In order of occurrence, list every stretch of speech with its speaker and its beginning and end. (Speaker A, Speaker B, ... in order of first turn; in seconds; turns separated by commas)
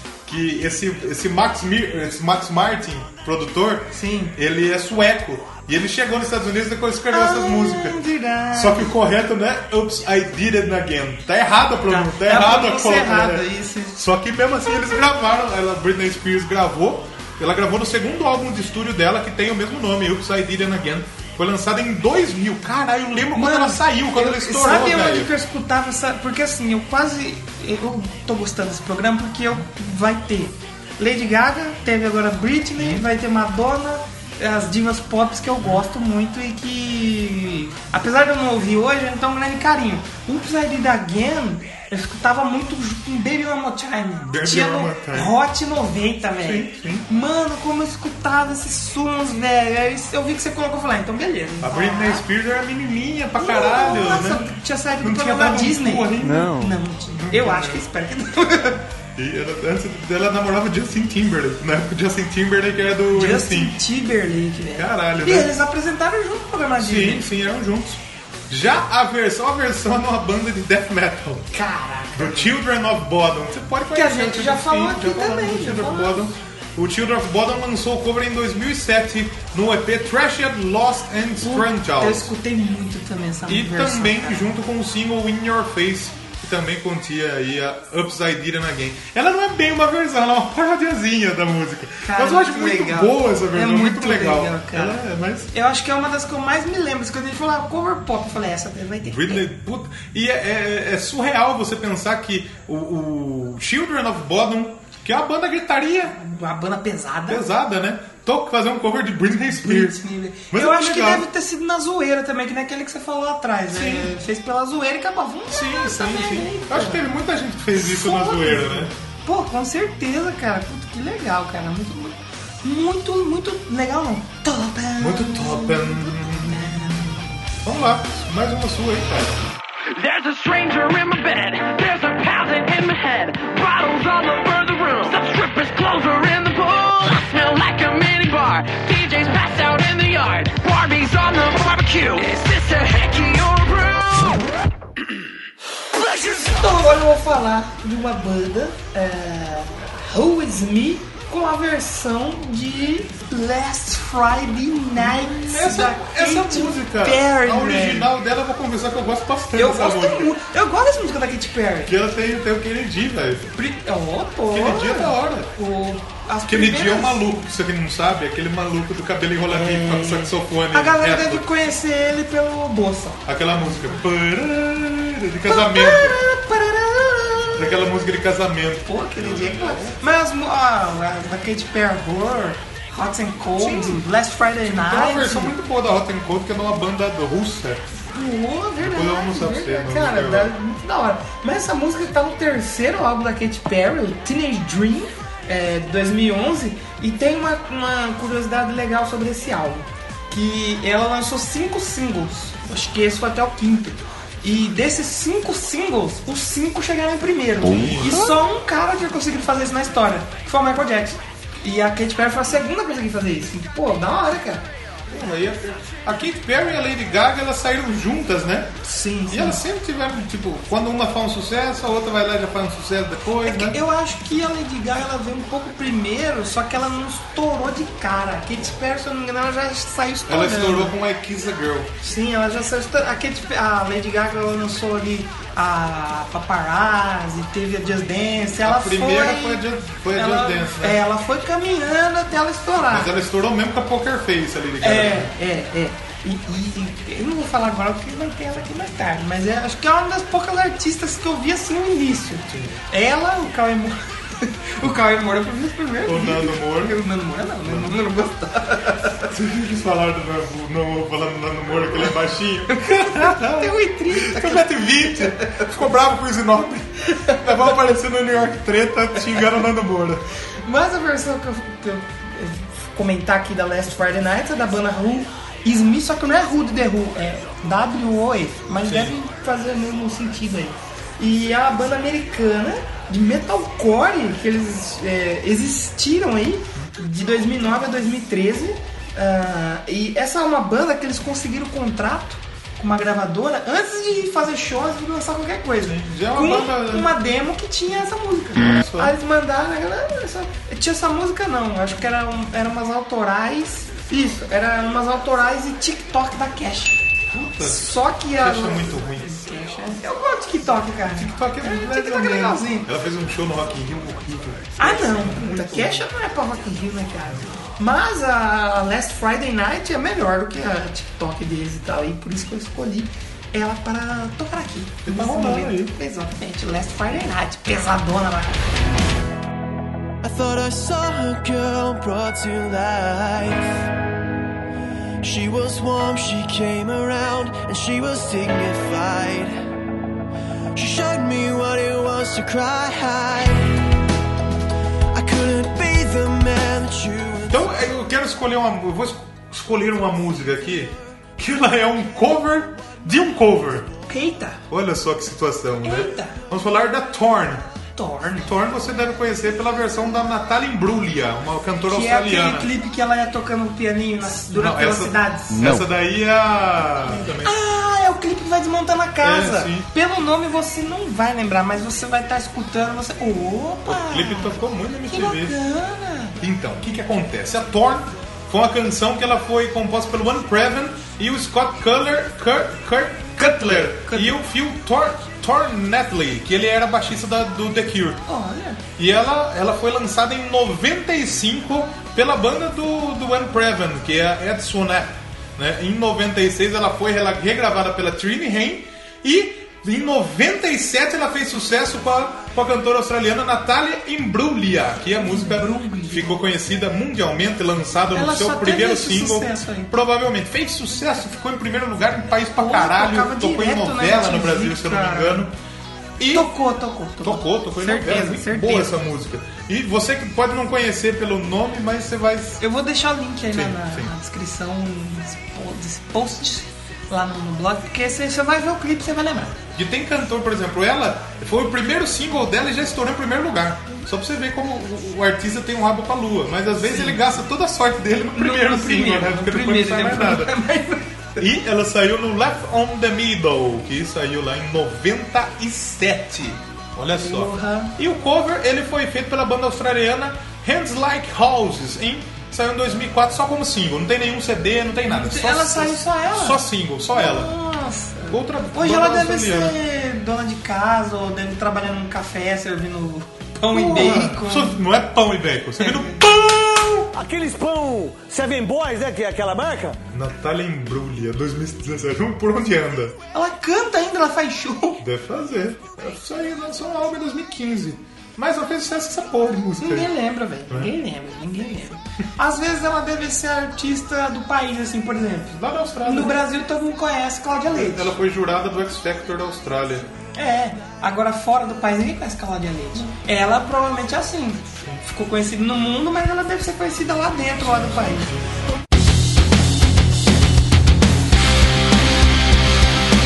Speaker A: 0.2-8.0, Speaker B: 3.9-4.3, Speaker B: 7.1-9.0, Speaker A: 8.5-25.3, Speaker B: 11.9-14.0, Speaker B: 23.3-52.2, Speaker A: 32.8-33.0, Speaker A: 44.2-45.3, Speaker A: 46.4-47.1, Speaker A: 51.6-56.6, Speaker B: 53.4-58.8, Speaker A: 57.1-57.8, Speaker A: 59.1-63.8, Speaker B: 63.1-67.3, Speaker A: 64.7-65.5, Speaker A: 66.8-71.5, Speaker B: 71.5-72.6, Speaker A: 72.1-82.3, Speaker B: 73.9-76.2, Speaker B: 81.4-84.5, Speaker A: 83.5-95.5, Speaker B: 92.0-99.4, Speaker A: 99.0-106.2, Speaker B: 106.1-107.4, Speaker A: 107.3-111.3, Speaker B: 109.5-117.0, Speaker A: 113.7-114.1, Speaker A: 115.5-118.9, Speaker B: 117.7-127.3, Speaker A: 125.0-127.1, Speaker A: 127.6-129.4, Speaker C: 129.9-144.4, Speaker B: 146.4-158.1, Speaker A: 154.9-160.3, Speaker B: 159.6-161.9, Speaker A: 161.9-163.5, Speaker B: 163.6-167.2, Speaker A: 164.5-165.5, Speaker A: 166.5-171.4, Speaker B: 169.4-173.9, Speaker A: 173.2-176.2, Speaker B: 175.4-177.8, Speaker A: 177.6-180.0, Speaker B: 178.8-185.5, Speaker A: 183.6-184.0, Speaker A: 184.7-187.8, Speaker B: 188.1-214.6, Speaker A: 188.8-190.5, Speaker A: 207.6-208.3, Speaker A: 215.1-218.7, Speaker B: 218.8-219.6, Speaker A: 219.3-223.8, Speaker B: 223.4-230.9, Speaker A: 230.3-231.9, Speaker B: 232.0-243.1, Speaker A: 238.6-241.0, Speaker A: 242.9-245.3, Speaker B: 244.8-259.2, Speaker A: 252.5-252.7, Speaker A: 256.0-257.0, Speaker A: 257.6-257.9, Speaker A: 259.3-270.2, Speaker B: 262.7-265.7, Speaker B: 267.1-267.4, Speaker B: 270.6-312.9, Speaker A: 278.8-279.1, Speaker A: 295.8-297.1, Speaker A: 298.6-299.1, Speaker A: 307.3-309.3, Speaker A: 311.1-316.1, Speaker B: 314.8-328.6, Speaker A: 325.1-325.9, Speaker D: 330.2-333.8, Speaker D: 335.2-339.6, Speaker D: 340.7-343.8, Speaker D: 345.1-347.6, Speaker A: 347.5-353.9, Speaker B: 354.1-354.6, Speaker A: 354.7-357.6, Speaker B: 355.8-356.4, Speaker B: 357.9-358.5, Speaker A: 358.4-362.7, Speaker B: 361.9-365.8, Speaker A: 364.5-367.6, Speaker B: 367.1-376.4, Speaker A: 369.2-369.9, Speaker A: 373.8-375.6, Speaker A: 376.4-388.2, Speaker B: 383.4-384.4, Speaker B: 388.3-388.8, Speaker A: 389.0-415.5, Speaker B: 405.2-406.4, Speaker B: 408.1-409.9, Speaker B: 412.6-415.5, Speaker A: 416.2-416.5, Speaker B: 416.3-418.9, Speaker A: 417.2-422.6, Speaker B: 422.6-429.6, Speaker A: 423.5-424.1, Speaker A: 429.7-440.5, Speaker B: 436.8-437.3, Speaker B: 438.3-441.3, Speaker A: 441.4-457.5, Speaker B: 447.1-447.9, Speaker B: 455.1-464.8, Speaker A: 458.3-459.8, Speaker A: 463.7-467.1, Speaker B: 465.8-466.2, Speaker E: 467.1-470.0, Speaker A: 470.1-473.1, Speaker B: 473.3-475.0, Speaker A: 475.0-480.1, Speaker B: 479.8-488.1, Speaker A: 485.5-486.4, Speaker A: 487.7-490.1, Speaker B: 490.3-498.3, Speaker A: 497.7-498.4